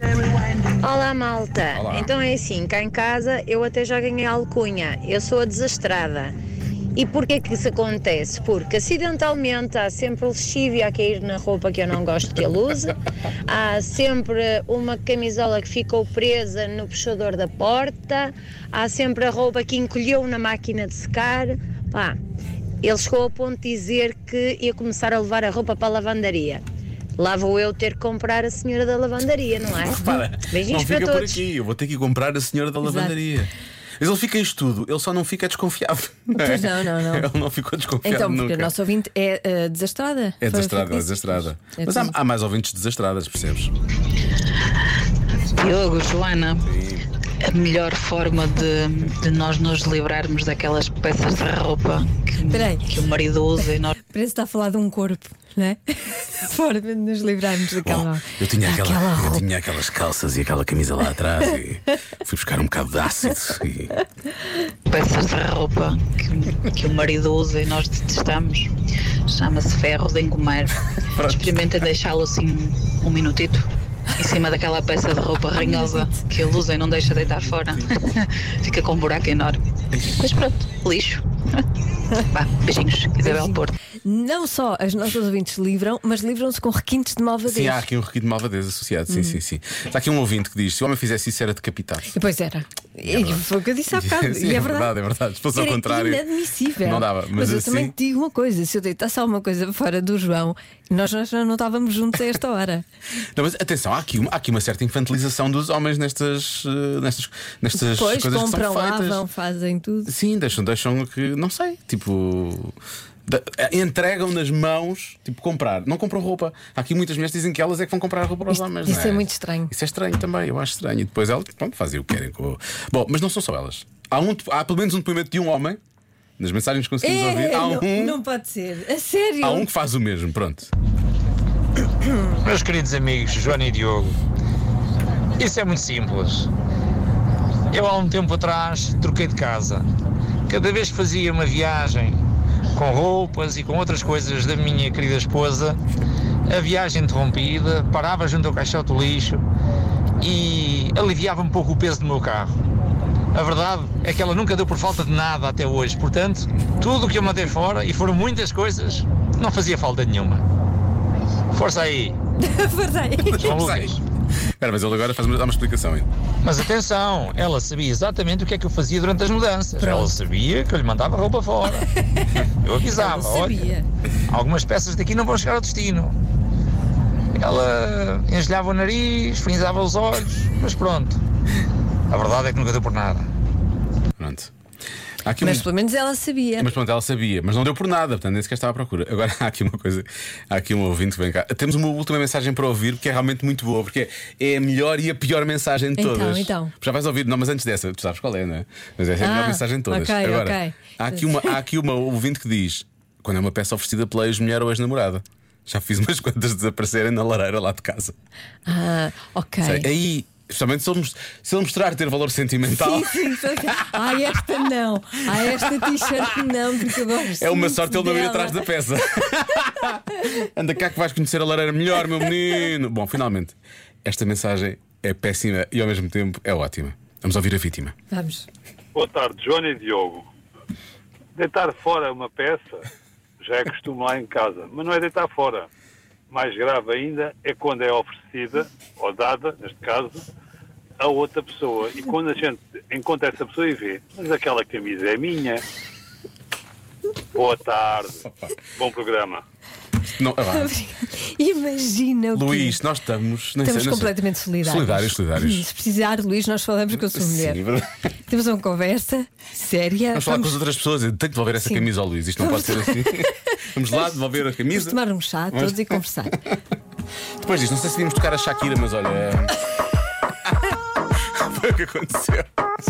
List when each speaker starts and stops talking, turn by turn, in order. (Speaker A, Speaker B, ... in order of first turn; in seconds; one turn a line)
Speaker A: 0.6-6.3
Speaker B: 1.7-2.1
Speaker A: 7.0-12.9
Speaker A: 13.5-22.2
Speaker A: 22.8-26.6
Speaker A: 27.2-31.4
Speaker B: 29.9-38.7
Speaker C: 32.8-33.2
Speaker C: 36.4-37.3
Speaker C: 38.0-42.1
Speaker B: 40.4-43.7
Speaker D: 45.5-46.7
Speaker B: 46.6-47.0
Speaker D: 47.4-53.9
Speaker C: 52.5-52.9
Speaker C: 54.1-59.5
Speaker B: 57.8-64.0
Speaker D: 64.9-68.7
Speaker D: 69.2-81.6
Speaker B: 71.1-71.7
Speaker C: 75.6-76.2
Speaker B: 79.9-80.2
Speaker D: 82.2-83.8
Speaker C: 83.2-87.8
Speaker B: 87.5-92.2
Speaker C: 89.1-89.4
Speaker C: 92.1-94.9
Speaker B: 93.0-96.2
Speaker C: 95.5-102.8
Speaker B: 96.8-97.9
Speaker B: 103.2-109.2
Speaker C: 107.8-110.1
Speaker B: 110.1-125.8
Speaker C: 118.5-119.7
Speaker B: 126.4-128.2
Speaker C: 127.0-129.7
Speaker B: 129.4-130.7
Speaker E: 132.4-134.2
Speaker E: 135.4-136.5
Speaker E: 137.7-139.9
Speaker E: 140.5-142.2
Speaker E: 142.7-145.8
Speaker E: 146.5-149.4
Speaker E: 150.2-152.6
Speaker E: 153.3-160.4
Speaker E: 161.5-162.2
Speaker C: 162.4-163.6
Speaker B: 163.2-164.0
Speaker E: 163.4-164.0
Speaker B: 164.5-166.1
Speaker E: 166.4-171.9
Speaker C: 169.8-170.1
Speaker E: 172.6-173.6
Speaker C: 172.9-173.9
Speaker E: 174.3-176.2
Speaker E: 177.4-181.2
Speaker E: 182.1-183.3
Speaker B: 184.2-184.5
Speaker B: 185.2-185.7
Speaker C: 185.4-186.8
Speaker B: 186.6-208.2
Speaker C: 196.0-196.7
Speaker C: 199.2-201.6
Speaker C: 208.7-209.9
Speaker B: 209.6-214.4
Speaker C: 212.7-219.2
Speaker B: 215.3-216.4
Speaker B: 217.3-227.9
Speaker C: 228.1-228.5
Speaker F: 228.9-230.2
Speaker F: 231.4-232.8
Speaker F: 233.4-235.7
Speaker F: 236.3-240.2
Speaker F: 241.0-245.6
Speaker F: 247.3-248.2
Speaker F: 248.8-249.4
Speaker B: 250.1-250.7
Speaker C: 250.4-252.8
Speaker B: 252.3-255.7
Speaker C: 253.6-257.6
Speaker B: 256.9-257.9
Speaker C: 258.3-260.6
Speaker B: 260.1-266.0
Speaker C: 261.6-263.2
Speaker C: 264.7-266.3
Speaker B: 267.4-269.5
Speaker B: 270.5-270.7
Speaker B: 271.3-272.5